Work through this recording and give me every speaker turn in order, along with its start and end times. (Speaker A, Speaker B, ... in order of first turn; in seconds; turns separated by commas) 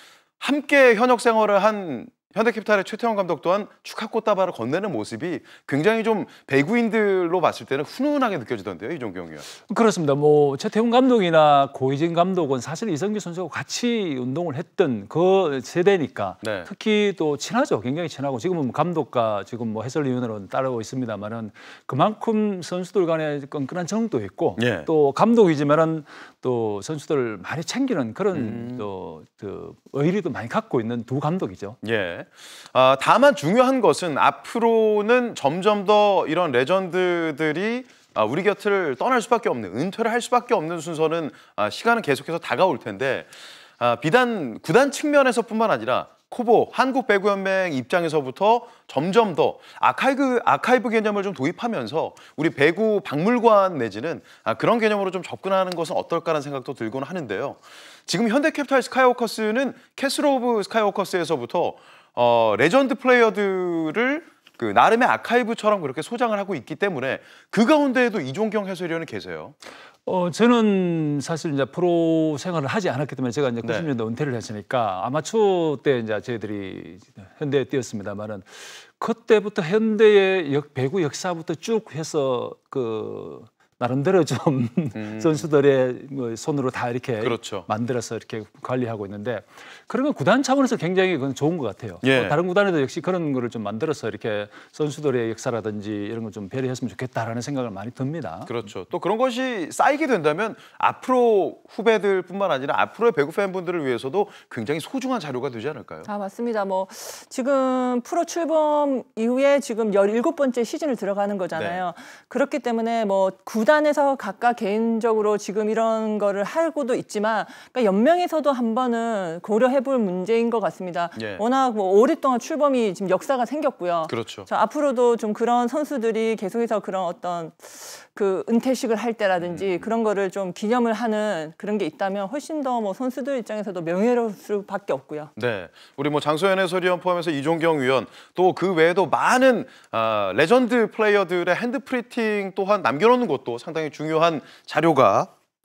Speaker A: 0.4-9.4, Speaker B: 9.7-31.8, Speaker A: 16.4-16.7, Speaker A: 24.6-24.9, Speaker A: 28.3-28.9, Speaker A: 31.8-69.5, Speaker B: 70.0-98.5, Speaker A: 73.6-73.9, Speaker A: 84.9-85.5, Speaker A: 87.2-87.7, Speaker A: 92.0-92.4, Speaker A: 98.5-106.1, Speaker C: 106.0-135.3, Speaker A: 111.5-111.8, Speaker A: 121.2-121.4, Speaker A: 124.1-124.5, Speaker A: 129.4-129.8, Speaker A: 135.3-145.3